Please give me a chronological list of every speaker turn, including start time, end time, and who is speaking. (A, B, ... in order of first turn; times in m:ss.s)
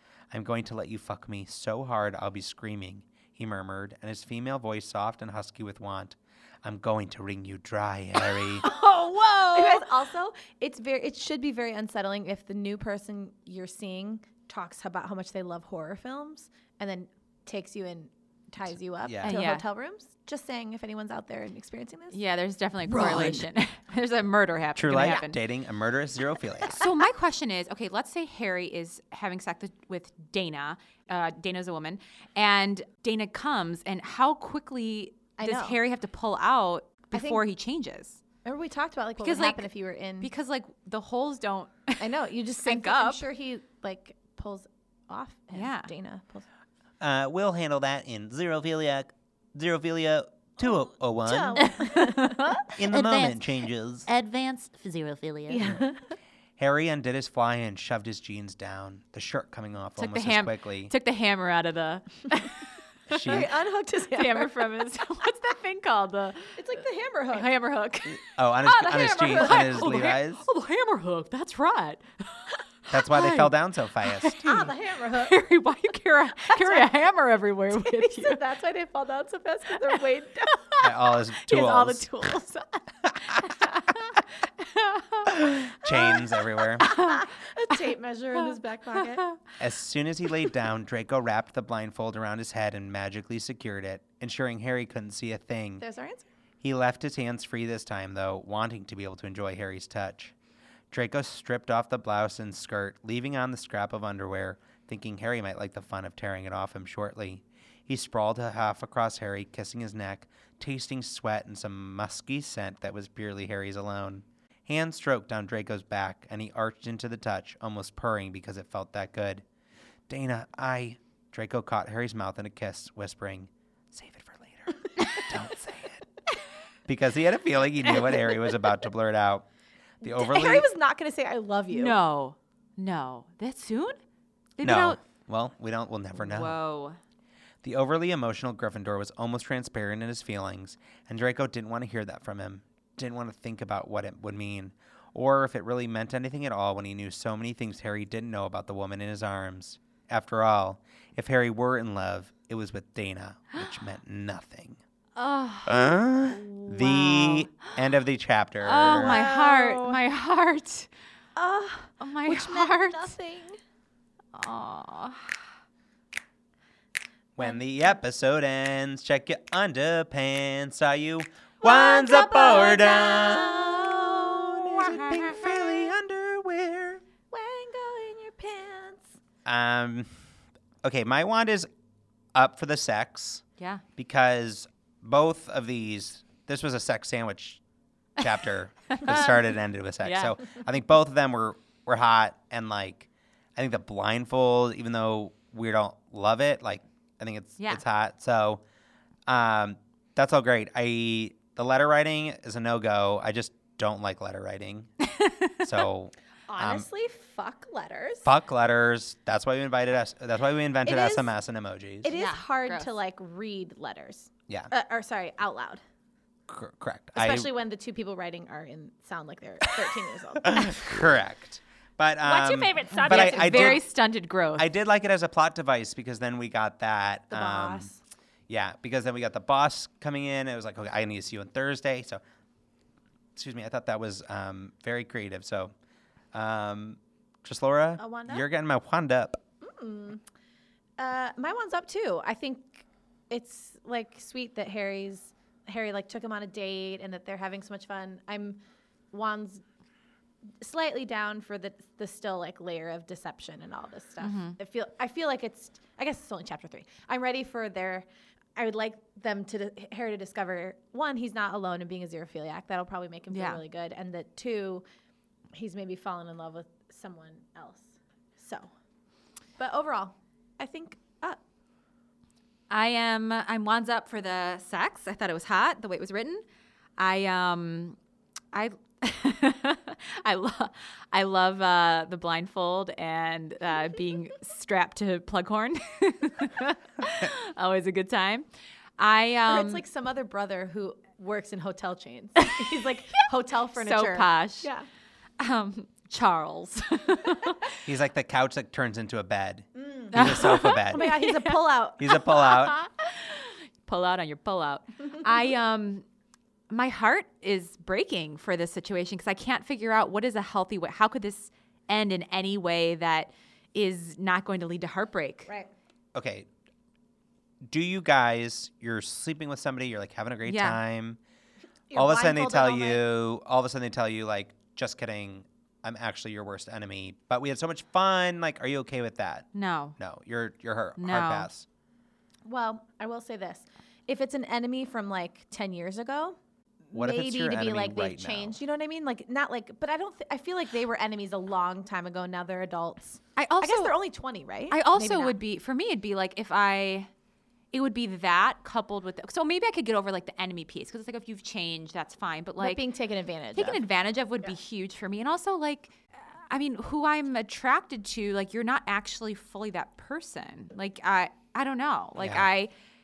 0:00.3-0:08.7 A
0:08.6-0:09.8 B
0:09.5-0:22.2 C
0:19.0-0:19.4 A
0:19.2-0:19.6 B
0:22.1-0:25.4 B
0:22.9-0:23.5 C
0:23.0-0:23.3 A
0:24.8-0:26.9 A
0:26.7-0:38.2 B
0:35.4-0:35.8 C
0:37.1-0:37.4 C
0:38.4-0:40.3 C
0:39.2-0:39.7 B
0:40.2-0:42.1 B
0:42.0-0:46.5 C
0:42.6-0:43.3 B
0:45.5-0:45.9 B
0:47.0-0:51.7 A
0:51.3-0:52.7 C
0:51.6-0:53.5 B
0:52.8-0:54.1 A
0:54.1-0:55.6 B
0:55.5-0:56.0 C
0:56.6-1:00.9 A
1:00.0-1:03.4 B
1:03.1-1:03.5 A
1:03.2-1:04.5 C
1:04.1-1:06.6 B
1:06.6-1:07.5 C
1:07.3-1:18.4 B
1:08.1-1:10.5 A
1:09.3-1:09.8 C
1:12.9-1:14.4 A
1:14.4-1:15.4 C
1:16.5-1:16.9 C
1:17.7-1:20.6 C
1:20.5-1:20.9 B
1:20.8-1:22.1 A
1:21.5-1:22.7 B
1:23.0-1:23.5 A
1:23.5-1:25.5 B
1:25.4-1:27.0 A
1:26.8-1:29.3 C
1:26.8-1:27.2 B
1:29.6-1:35.8 A
1:35.8-1:36.3 C
1:36.6-1:40.3 A
1:40.9-1:59.4 A
2:00.1-2:06.1 A
2:06.9-2:09.5 A
2:10.0-2:10.7 A
2:10.0-2:12.0 C
2:11.7-2:14.0 B
2:14.6-2:15.0 B
2:14.6-2:16.6 A
2:16.2-2:17.0 B
2:17.6-2:34.8 A
2:35.2-2:36.0 B
2:35.6-2:39.2 A
2:36.6-2:37.5 B
2:38.6-2:40.9 B
2:38.9-2:40.0 C
2:41.4-2:43.6 C
2:42.0-2:43.2 B
2:44.3-2:45.3 B
2:47.4-2:57.0 A
2:51.6-2:55.5 B
2:52.6-2:54.2 C
2:57.3-2:59.2 C
2:59.4-3:00.1 A
3:00.8-3:01.7 A
3:02.3-3:03.4 A
3:04.0-3:07.6 A
3:08.2-3:18.6 A
3:08.9-3:09.5 B
3:10.0-3:10.4 B
3:19.3-3:24.9 A
3:25.0-3:25.7 B
3:25.6-3:26.9 A
3:26.5-3:28.3 C
3:28.2-3:32.1 A
3:30.8-3:31.3 C
3:32.0-3:35.8 C
3:32.1-3:32.9 B
3:36.5-3:37.5 A
3:37.2-3:41.0 C
3:40.4-3:43.9 A
3:42.2-3:44.7 B
3:42.9-3:43.6 C
3:44.6-3:47.9 A
3:47.3-3:48.0 C
3:48.5-3:52.2 A
3:53.4-3:55.7 A
3:56.3-3:59.4 A
3:58.0-3:58.5 C
3:59.6-4:00.2 C
4:01.0-4:08.6 C
4:09.1-4:09.6 C
4:10.6-4:24.8 C
4:14.2-4:14.6 B
4:23.3-4:23.6 B
4:25.5-4:28.7 C
4:29.6-4:31.4 C
4:32.7-4:36.4 B
4:37.0-4:38.0 B
4:38.5-4:48.5 B
4:49.0-4:49.8 B
4:49.5-4:54.9 C
4:52.4-4:52.8 B
4:53.8-4:54.7 B
4:55.4-4:57.8 B
4:57.9-5:01.1 A
4:59.8-5:02.2 C
5:00.1-5:06.0 B
5:02.0-5:02.8 A
5:06.7-5:15.5 B
5:16.1-5:16.5 A
5:17.6-5:21.2 A
5:20.5-5:20.8 B
5:21.9-5:23.0 C
5:22.0-5:29.5 A
5:29.5-5:30.0 B
5:30.0-5:31.7 A
5:31.0-5:31.5 B
5:32.4-5:36.4 C
5:36.9-5:45.4 C
5:36.9-5:38.6 A
5:43.4-5:44.0 B
5:44.7-5:47.1 B
5:47.7-5:52.9 B
5:52.6-5:53.8 C
5:53.6-6:02.7 B
6:02.2-6:02.5 A